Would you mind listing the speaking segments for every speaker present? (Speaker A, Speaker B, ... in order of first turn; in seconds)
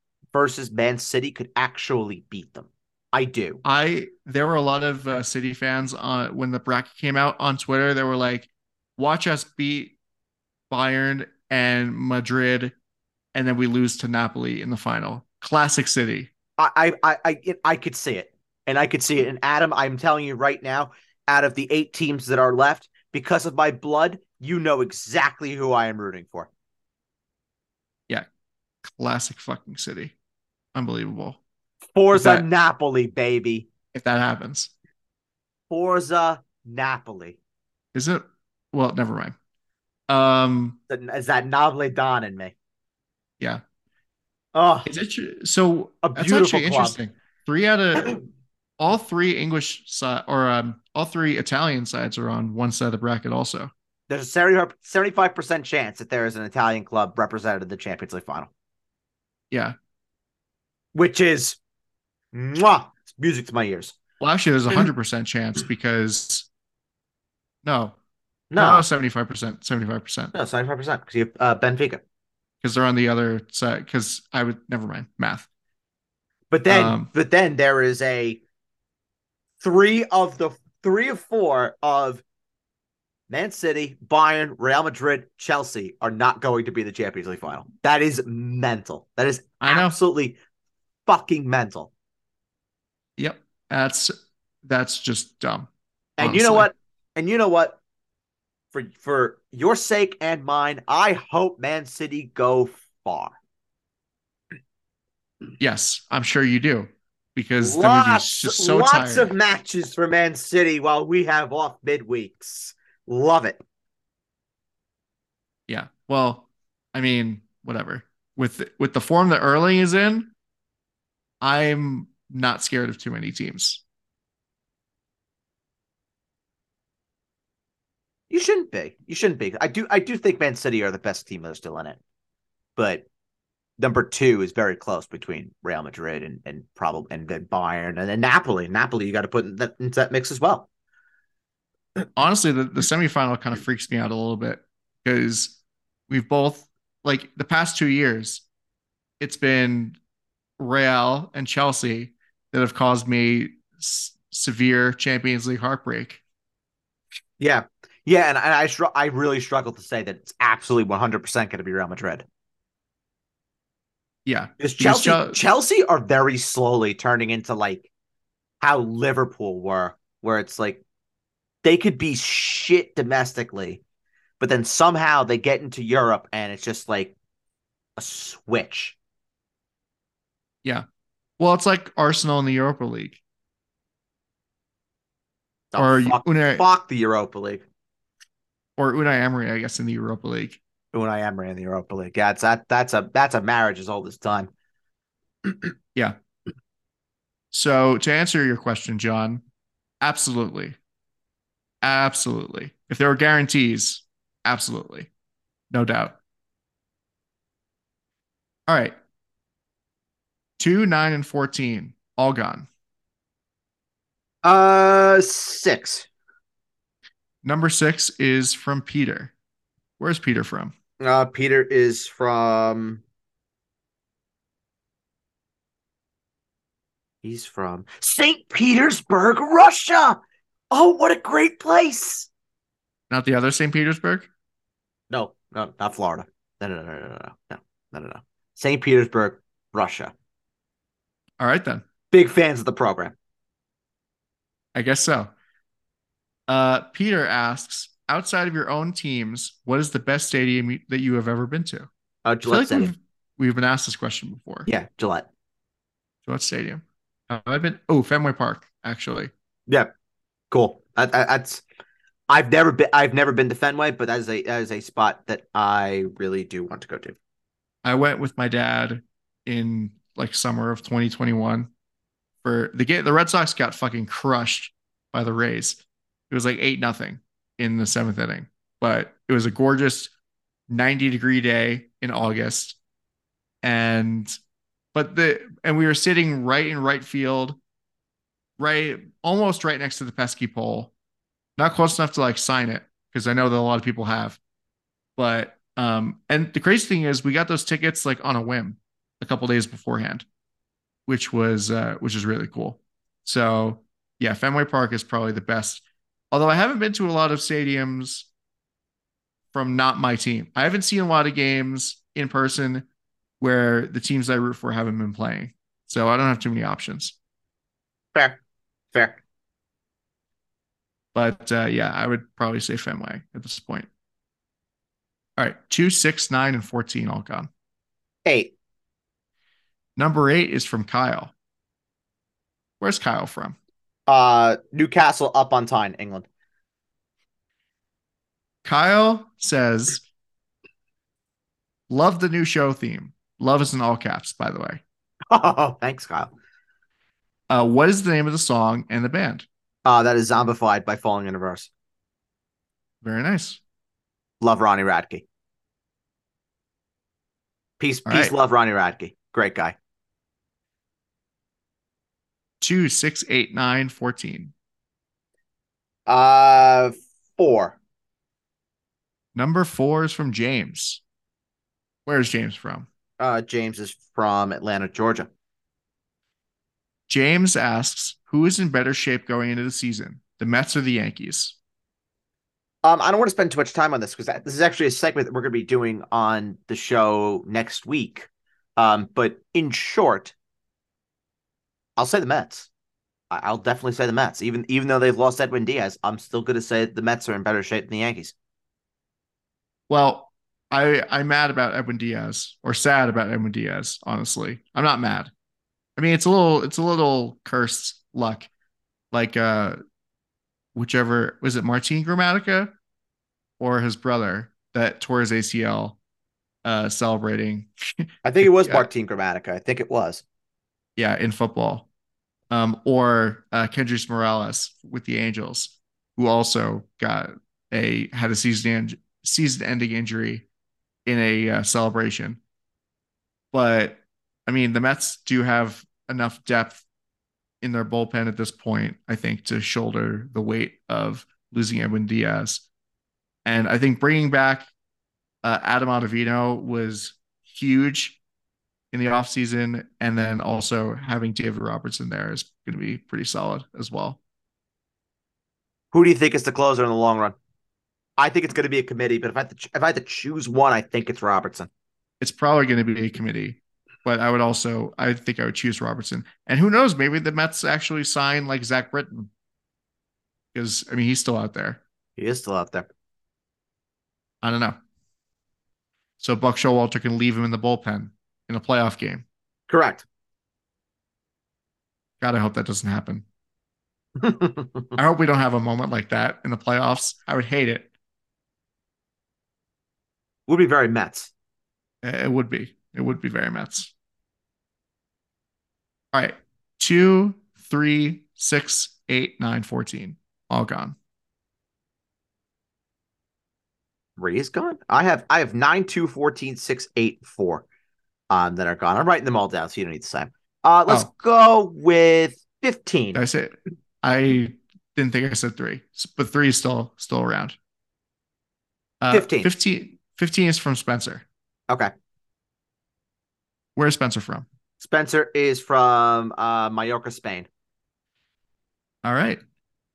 Speaker A: 0.3-3.6, 16.6-26.5, 31.9-33.7, 35.7-37.4, 40.9-42.5, 44.5-44.9, 46.0-47.0, 54.1-58.5, 61.0-61.6, 62.3-64.0, 68.5-68.9, 70.3-72.0, 76.5-78.4, 79.6-82.2, 83.3-90.4, 91.1-91.9, 96.2-97.8, 98.7-103.4, 107.6-113.6, 128.3-132.0, 132.8-133.1, 133.8-140.7, 157.4-162.2, 164.6-167.9, 168.6-170.8, 171.6-173.8, 174.4-177.2, 178.0-179.0, 185.7-187.6, 190.9-194.5, 214.4-216.1, 221.0-223.0, 227.2-230.2, 230.7-232.3, 235.1-240.1, 242.1-243.2, 252.2-252.9, 254.7-255.3, 260.5-261.6, 262.3-267.2, 318.9-319.2, 328.3-328.5, 334.1-336.3, 345.3-346.3, 349.9-351.7, 354.4-355.2, 357.8-359.8, 366.1-367.8, 373.2-375.3, 382.8-390.3, 392.0-392.7, 393.3-398.3, 418.2-420.2, 455.9-457.4, 458.2-461.7, 472.2-472.9, 479.7-480.1, 484.2-485.0, 490.5-491.3, 504.2-507.7, 508.3-513.2, 519.1-519.5, 524.8-527.5
Speaker B: 3.6-10.0, 10.7-12.7, 13.3-16.3, 28.9-30.1, 30.7-31.4, 32.1-32.5, 33.9-34.7, 37.9-39.4, 40.1-40.8, 44.9-48.2, 48.8-53.7, 64.2-66.5, 67.6-68.0, 68.6-70.3, 72.6-75.5, 76.7-77.1, 89.6-90.0, 93.2-94.1, 94.6-95.7, 96.2-96.7, 105.6-109.3, 115.7-120.3, 121.4-123.8, 142.2-145.6, 146.1-148.4, 149.2-150.0, 150.6-156.2, 164.2-165.4, 181.4-183.2, 185.8-186.7, 188.8-190.6, 197.5-199.4, 200.0-200.8, 201.8-205.1, 205.7-206.2, 208.7-209.0, 210.6-212.7, 217.4-219.3, 220.0-220.7, 233.1-234.3, 241.4-241.8, 244.8-245.3, 246.5-251.9, 252.5-254.7, 256.3-259.3, 267.8-271.7, 272.4-280.1, 280.7-282.8, 283.6-284.4, 284.9-287.6, 288.6-290.9, 291.6-294.4, 295.2-300.2, 301.1-308.3, 309.5-312.9, 313.4-317.1, 321.1-323.9, 325.4-327.5, 330.0-331.3, 332.8-333.6, 338.6-340.0, 341.9-344.8, 347.5-349.5, 353.0-353.6, 358.1-358.3, 362.6-364.5, 369.4-371.0, 372.1-372.9, 377.1-381.6, 399.9-405.3, 406.0-408.5, 409.1-409.8, 410.8-412.7, 413.6-416.0, 416.6-418.9, 421.0-421.9, 422.5-430.5, 431.1-432.4, 433.5-436.8, 437.6-442.6, 443.4-444.7, 445.4-448.2, 448.9-454.2, 462.2-469.3, 470.5-471.8, 474.4-474.8, 476.2-479.2, 482.2-483.2, 485.0-487.9, 492.0-493.9, 496.1-501.0, 513.1-517.6, 519.0-521.2, 523.8-524.5, 529.0-529.4